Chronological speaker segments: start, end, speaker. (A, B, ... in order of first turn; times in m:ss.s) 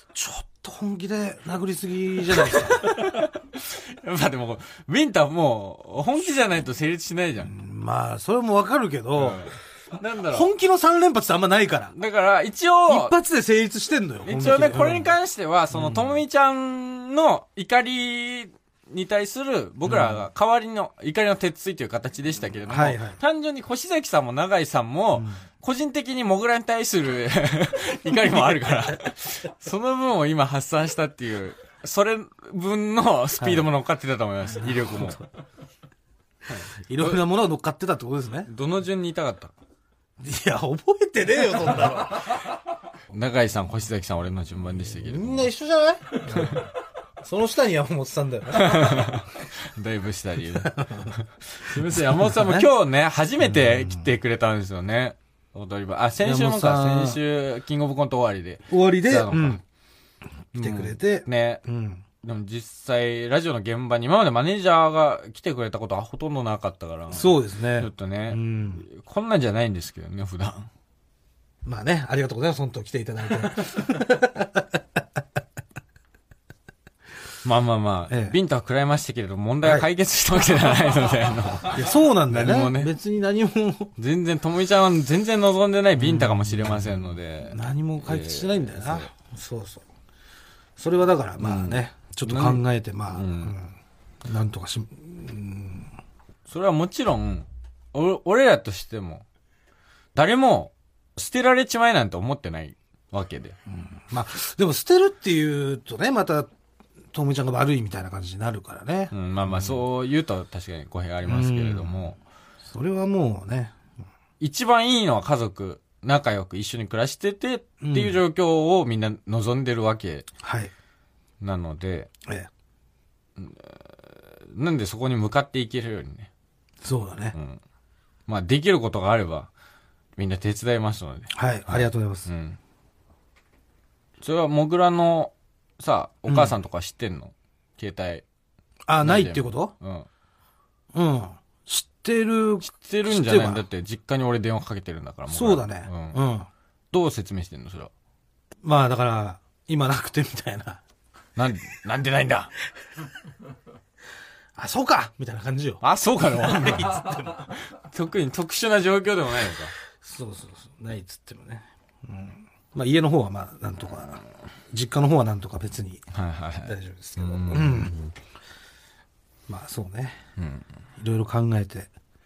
0:00.1-0:02.9 A
0:02.3-0:07.5 B
0:07.4-0:09.5 A
0:09.2-0:10.5 B
0:10.3-0:12.0 A
0:11.9-0:13.1 B
0:12.9-0:15.1 A
0:14.2-0:35.2 B
0:15.7-0:16.2 A
0:19.9-0:20.2 A
0:22.7-0:23.2 A
0:33.4-0:33.7 A
0:34.6-0:35.2 A
0:36.5-0:37.2 B
0:36.8-0:38.5 A
0:38.5-0:39.5 B
0:40.2-0:42.4 A
0:43.1-0:45.5 B
0:44.9-0:46.7 A
0:46.3-0:46.6 B
0:47.2-0:49.2 A
0:48.6-0:59.6 B
0:50.5-0:51.2 A
0:51.7-0:52.7 A
0:53.4-0:54.1 A
0:56.2-0:57.2 A
0:58.7-0:59.6 A
1:00.6-1:01.6 B
1:00.6-1:02.0 A
1:02.2-1:10.7 B
1:07.1-1:08.9 A
1:11.6-1:14.8 A
1:17.4-1:22.9 B
1:18.1-1:18.4 A
1:21.7-1:23.9 A
1:24.0-1:29.1 B
1:26.0-1:29.8 A
1:30.8-1:33.8 A
1:31.4-1:33.5 B
1:34.3-1:35.9 A
1:36.5-1:39.2 B
1:40.1-1:43.6 B
1:43.7-1:46.5 A
1:47.1-1:49.8 A
1:49.1-1:52.2 B
1:51.3-1:52.1 A
1:52.7-1:53.7 A
1:54.4-2:00.3 B
1:57.8-1:58.2 A
2:00.4-2:00.7 A
2:01.4-2:02.1 B
2:03.4-2:03.9 B
2:04.5-2:06.3 B
2:06.8-2:07.4 A
2:07.3-2:07.6 B
2:08.3-2:09.5 B
2:10.2-2:12.6 B
2:11.3-2:12.3 A
2:14.2-2:18.2 B
2:16.3-2:16.6 A
2:18.9-2:19.7 A
2:19.0-2:20.1 B
2:20.9-2:23.6 A
2:22.6-2:26.2 B
2:25.3-2:26.5 A
2:26.9-2:27.9 B
2:28.6-2:30.8 A
2:31.4-2:32.5 B
2:34.6-2:35.8 A
2:35.8-2:37.0 B
2:36.4-2:37.5 A
2:37.7-2:39.7 B
2:40.0-2:46.0 A
2:46.1-2:48.1 B
2:46.6-2:47.9 A
2:49.5-2:50.2 A
2:50.4-2:50.6 B
2:51.0-2:51.9 A